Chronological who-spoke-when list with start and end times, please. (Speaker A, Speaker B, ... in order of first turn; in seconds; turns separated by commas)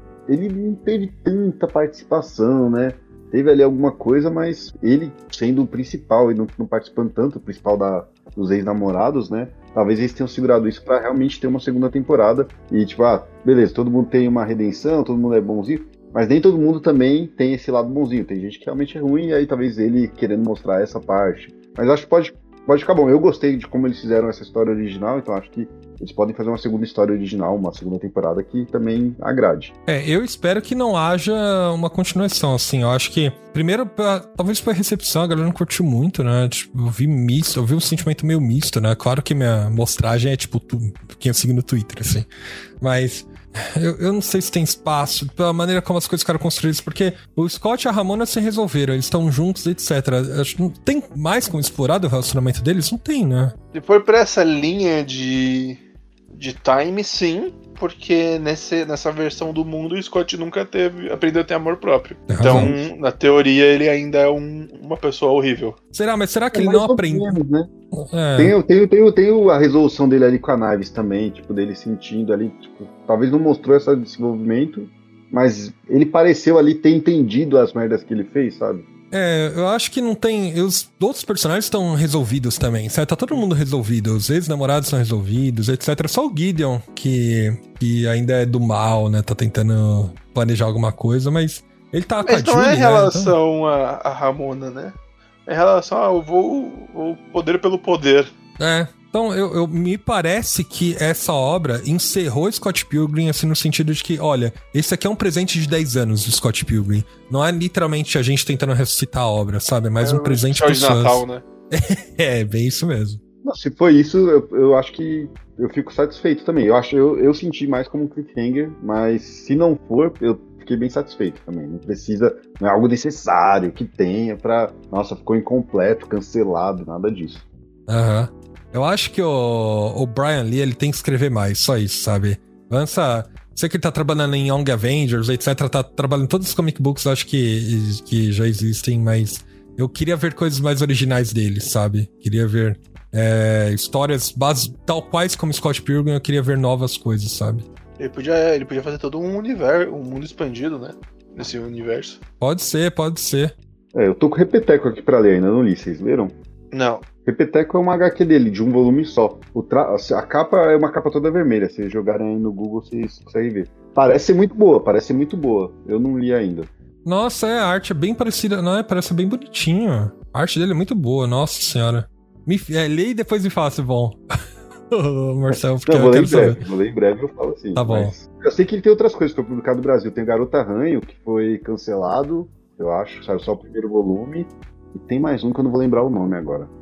Speaker A: 0.3-29.7, Speaker B: 29.9-42.3, Speaker B: 42.8-53.5, Speaker C: 53.7-55.8, Speaker C: 56.3-65.8, Speaker B: 62.3-62.7, Speaker B: 65.9-67.4, Speaker A: 66.5-67.7, Speaker B: 67.9-68.5, Speaker A: 68.4-78.9, Speaker B: 79.1-93.4, Speaker C: 92.2-98.3, Speaker B: 98.6-113.2, Speaker C: 110.0-111.5, Speaker A: 113.4-127.5, Speaker B: 127.9-147.7, Speaker C: 148.0-152.2, Speaker B: 152.4-153.6, Speaker A: 153.9-156.3, Speaker C: 156.7-157.1, Speaker A: 157.2-166.7, Speaker B: 167.1-174.2, Speaker B: 174.9-176.6, Speaker A: 175.5-186.7, Speaker B: 177.8-178.1